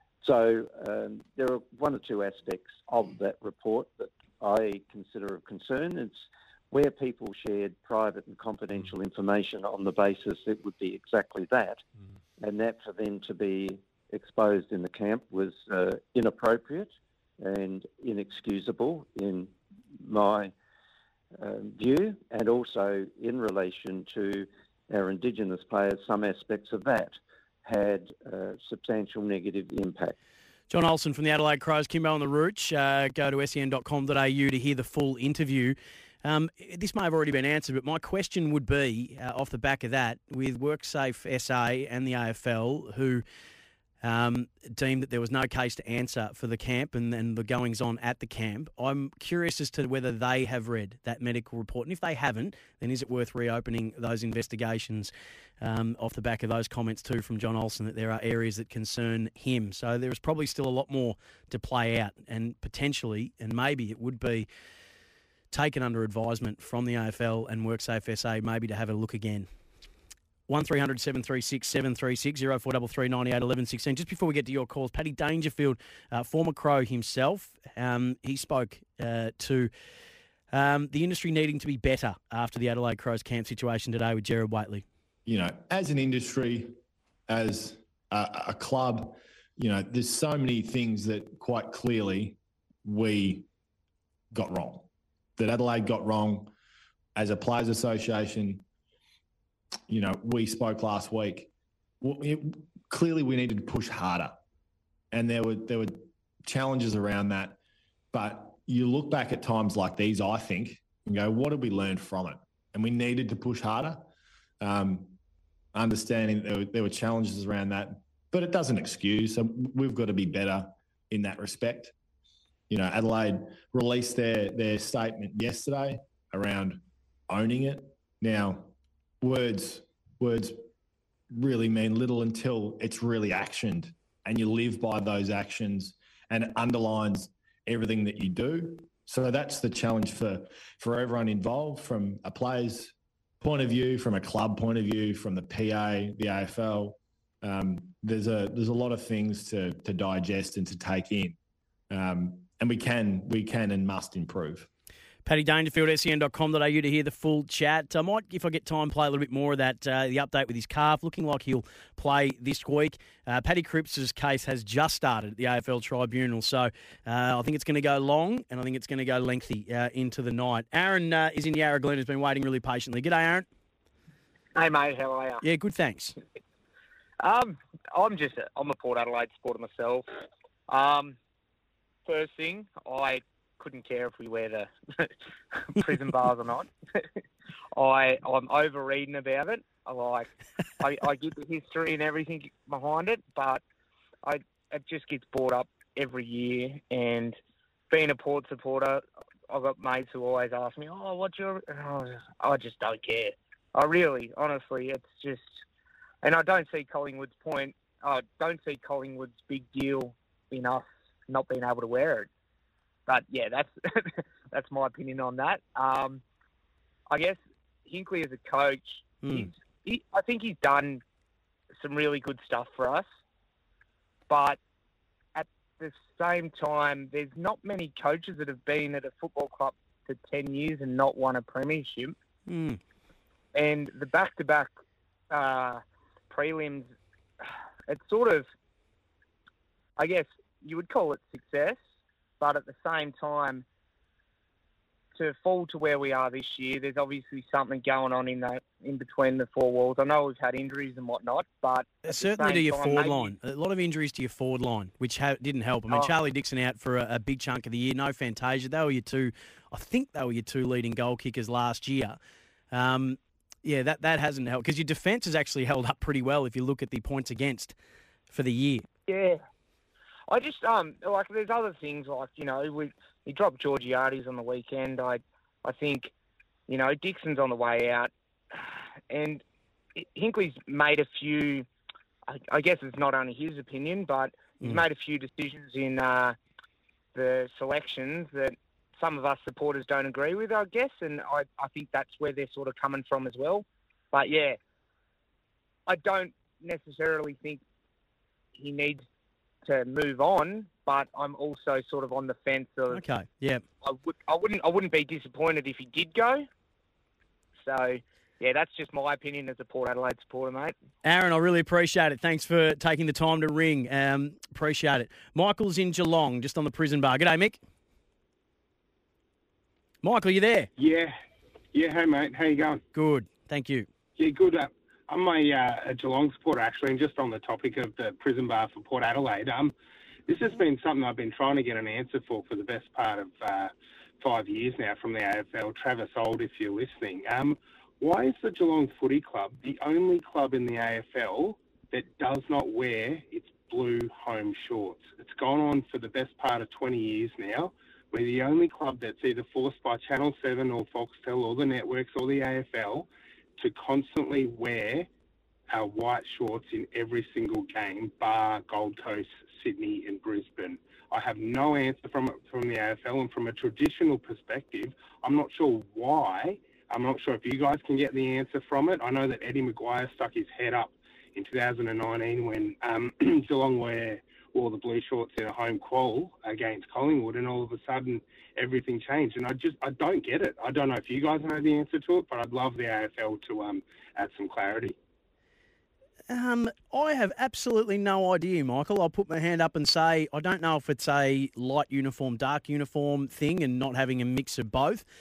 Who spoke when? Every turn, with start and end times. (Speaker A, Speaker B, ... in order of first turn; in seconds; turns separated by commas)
Speaker A: 0.2-11.8, Speaker A: 12.4-20.5, Speaker A: 21.4-30.2, Speaker B: 30.7-43.2, Speaker B: 44.0-64.5, Speaker B: 65.5-69.5, Speaker B: 70.5-79.7, Speaker B: 80.5-84.8, Speaker C: 85.3-86.7, Speaker C: 87.3-93.5, Speaker C: 94.3-96.5, Speaker C: 97.2-98.6, Speaker C: 99.9-101.5, Speaker C: 102.0-104.4, Speaker C: 105.1-107.6, Speaker C: 108.1-114.0, Speaker C: 114.6-115.2, Speaker C: 115.7-121.9, Speaker C: 122.7-130.7, Speaker C: 131.3-151.4, Speaker C: 151.9-154.7, Speaker B: 155.2-173.5, Speaker D: 174.6-175.4, Speaker B: 175.4-176.2, Speaker D: 177.2-180.1, Speaker D: 180.7-181.2, Speaker D: 182.1-186.7, Speaker D: 187.8-190.3, Speaker D: 190.8-193.6, Speaker D: 194.2-197.4, Speaker D: 197.9-205.6, Speaker D: 206.2-212.3, Speaker D: 213.1-216.2, Speaker D: 217.1-221.0, Speaker B: 219.2-219.5, Speaker D: 221.8-223.1, Speaker D: 224.3-224.6, Speaker D: 225.3-232.2, Speaker B: 232.5-232.8, Speaker D: 233.6-234.7, Speaker D: 235.3-236.9, Speaker D: 237.9-238.5, Speaker D: 240.0-241.8, Speaker D: 242.4-243.6, Speaker D: 245.2-253.3, Speaker B: 252.0-262.2, Speaker B: 262.7-267.8, Speaker B: 268.3-268.9, Speaker D: 269.1-269.4, Speaker D: 270.3-276.1, Speaker D: 276.7-279.4, Speaker D: 280.0-281.7, Speaker D: 282.3-286.4, Speaker D: 287.1-294.6, Speaker D: 295.9-297.6, Speaker D: 298.6-299.1, Speaker D: 299.7-303.0, Speaker B: 302.9-303.6, Speaker D: 303.8-306.5, Speaker D: 307.6-310.8, Speaker B: 311.0-317.6, Speaker B: 320.0-320.7, Speaker E: 320.8-321.1, Speaker E: 321.7-322.8, Speaker B: 322.9-323.9, Speaker E: 324.2-329.7, Speaker E: 330.3-355.1, Speaker E: 355.7-384.9, Speaker B: 386.3-395.1